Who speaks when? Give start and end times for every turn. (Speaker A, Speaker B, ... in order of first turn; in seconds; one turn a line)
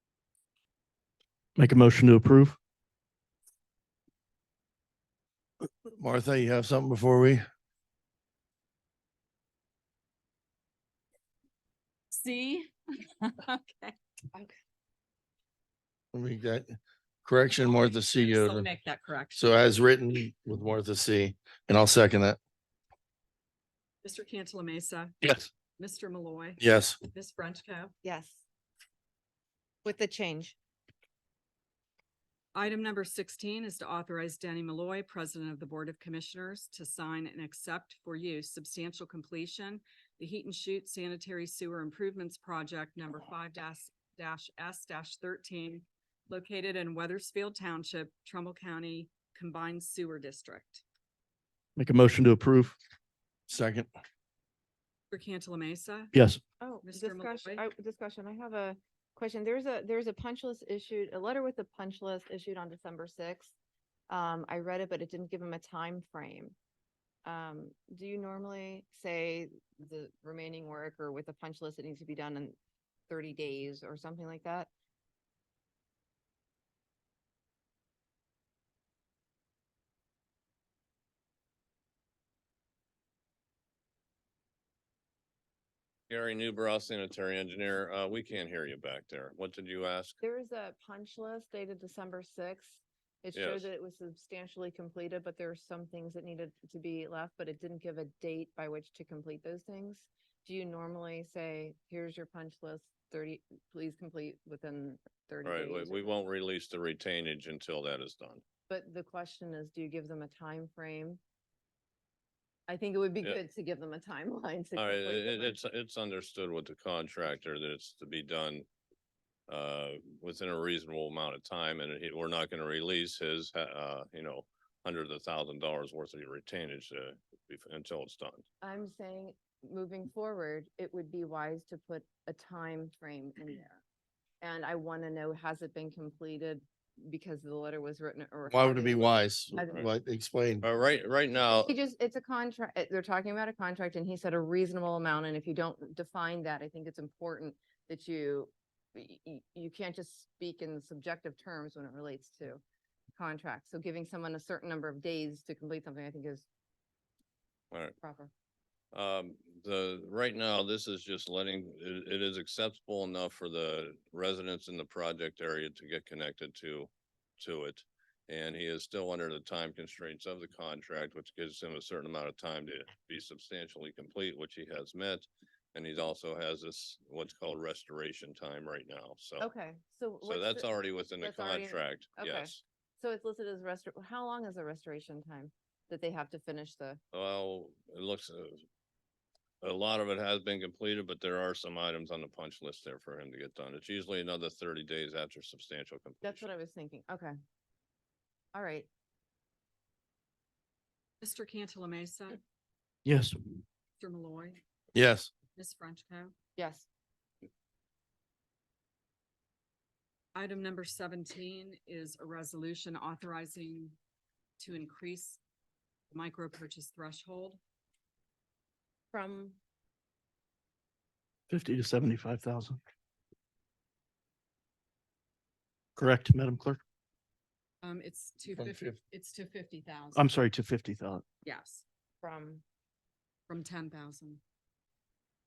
Speaker A: 1.6-2.6
Speaker B: 6.0-7.4
Speaker C: 12.1-13.9
Speaker B: 16.1-18.7
Speaker C: 17.6-19.4
Speaker B: 19.3-22.4
Speaker C: 24.0-25.1
Speaker C: 25.8-27.9
Speaker B: 26.6-27.0
Speaker D: 28.0-28.4
Speaker D: 29.8-30.5
Speaker C: 32.5-50.8
Speaker A: 51.8-52.8
Speaker B: 53.5-53.9
Speaker C: 55.1-56.1
Speaker A: 56.1-56.4
Speaker D: 56.6-63.5
Speaker C: 56.8-57.6
Speaker D: 64.1-66.5
Speaker D: 67.2-72.5
Speaker D: 73.1-74.7
Speaker E: 86.1-90.2
Speaker D: 90.2-106.2
Speaker E: 93.3-93.7
Speaker E: 105.4-108.4
Speaker D: 108.7-111.2
Speaker D: 112.7-115.6
Speaker E: 114.8-118.7
Speaker E: 119.5-128.4
Speaker D: 128.6-133.8
Speaker D: 134.4-139.8
Speaker B: 138.5-140.7
Speaker E: 140.6-141.7
Speaker D: 141.6-152.6
Speaker D: 153.2-156.4
Speaker D: 158.0-158.3
Speaker E: 158.9-179.5
Speaker D: 179.4-180.7
Speaker E: 180.2-182.6
Speaker D: 181.2-187.0
Speaker E: 187.1-188.6
Speaker E: 189.6-196.4
Speaker D: 196.2-197.3
Speaker D: 198.5-198.9
Speaker C: 201.2-202.4
Speaker A: 203.0-203.4
Speaker C: 204.0-204.6
Speaker B: 204.9-205.3
Speaker C: 205.5-206.3
Speaker D: 206.6-206.8
Speaker C: 210.3-213.9
Speaker C: 214.6-215.4
Speaker C: 216.1-217.6
Speaker D: 219.1-219.6
Speaker A: 221.5-222.8
Speaker A: 225.9-226.8
Speaker C: 227.8-230.2
Speaker B: 228.5-229.0
Speaker A: 230.1-231.2
Speaker C: 231.4-231.8
Speaker D: 232.2-232.6
Speaker C: 233.5-234.4